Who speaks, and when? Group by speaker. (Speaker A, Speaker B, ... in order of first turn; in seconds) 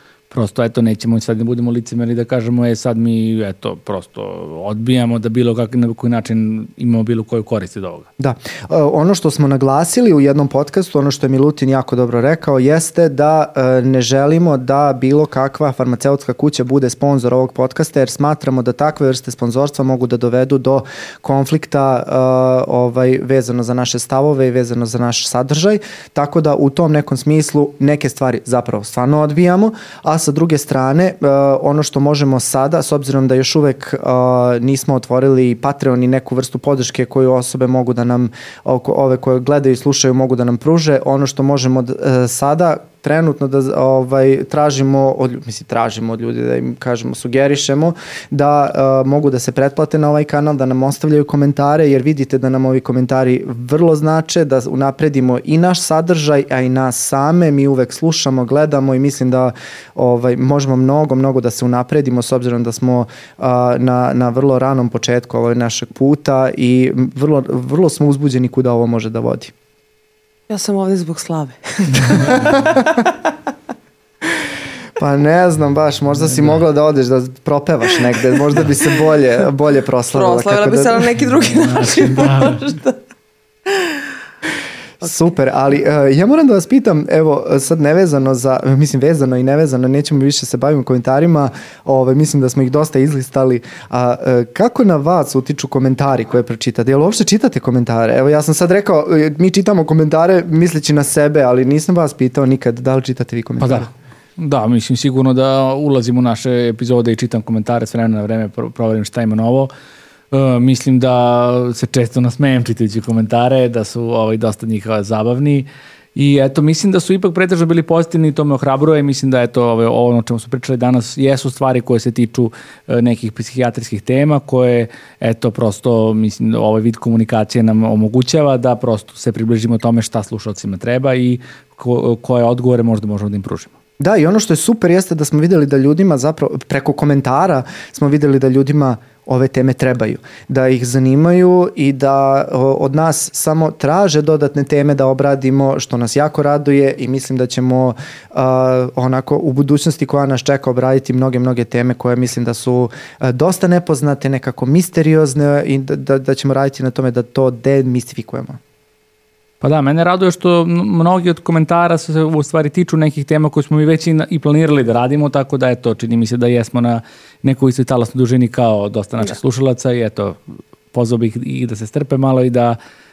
Speaker A: 0.3-8.1, 81.6-82.6, 103.6-109.7, 110.3-133.7, 159.6-172.8
Speaker B: 8.2-69.5, 72.3-72.7, 75.0-81.2, 85.0-103.9, 134.0-158.6
Speaker C: 70.5-73.3, 80.1-83.0, 83.7-84.0